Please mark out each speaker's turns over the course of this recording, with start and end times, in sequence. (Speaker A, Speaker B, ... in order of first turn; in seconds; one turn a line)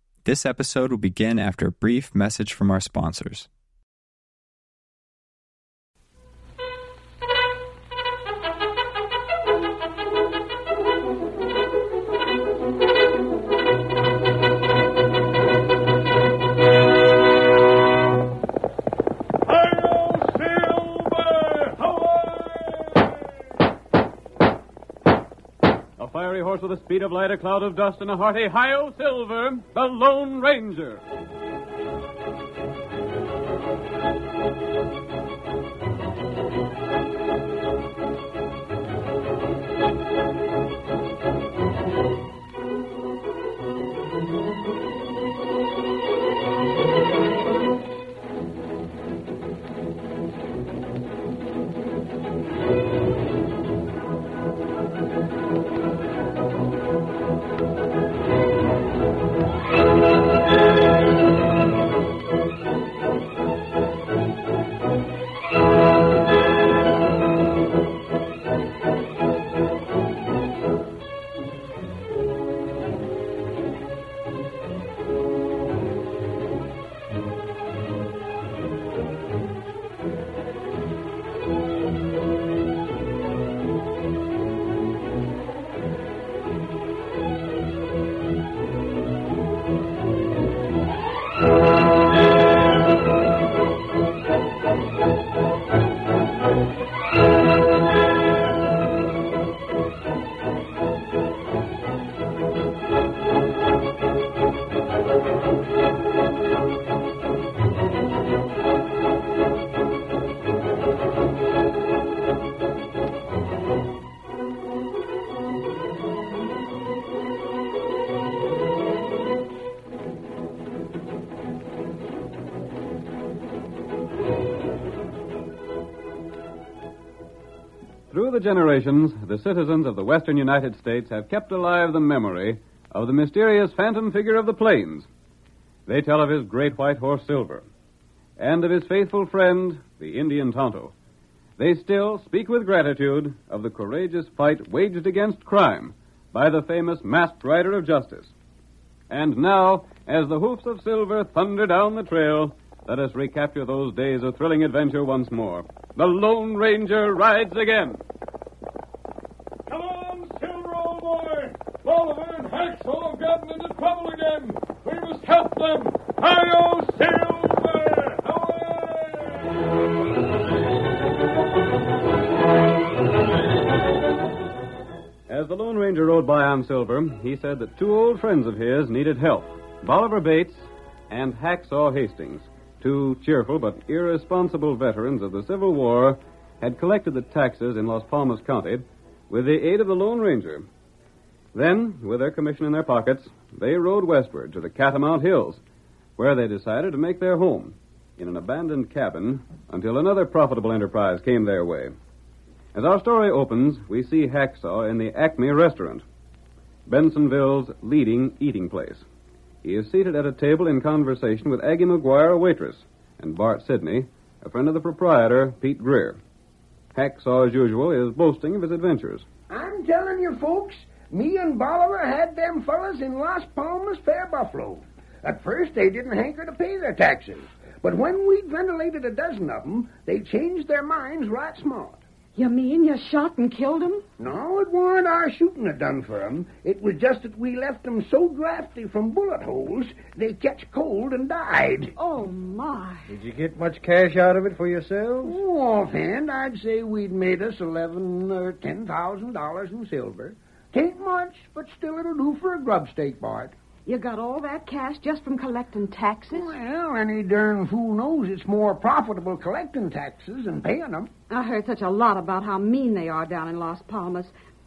Speaker A: 0.2-3.5
Speaker B: 19.5-23.2
Speaker C: 26.0-31.0
Speaker C: 128.1-135.1
Speaker C: 135.9-137.7
Speaker C: 138.4-140.9
Speaker C: 141.6-148.3
Speaker C: 149.1-158.0
Speaker B: 159.7-169.4
Speaker C: 175.3-190.7
Speaker C: 191.5-195.6
Speaker C: 196.2-201.9
Speaker C: 202.7-206.1
Speaker C: 206.9-209.1
Speaker C: 209.6-216.2
Speaker C: 216.9-219.3
Speaker D: 219.5-232.0
Speaker E: 232.4-234.0
Speaker D: 234.2-241.9
Speaker E: 242.0-243.1
Speaker F: 243.1-245.4
Speaker D: 245.2-253.5
Speaker E: 253.9-256.6
Speaker D: 256.3-261.1
Speaker E: 261.3-264.3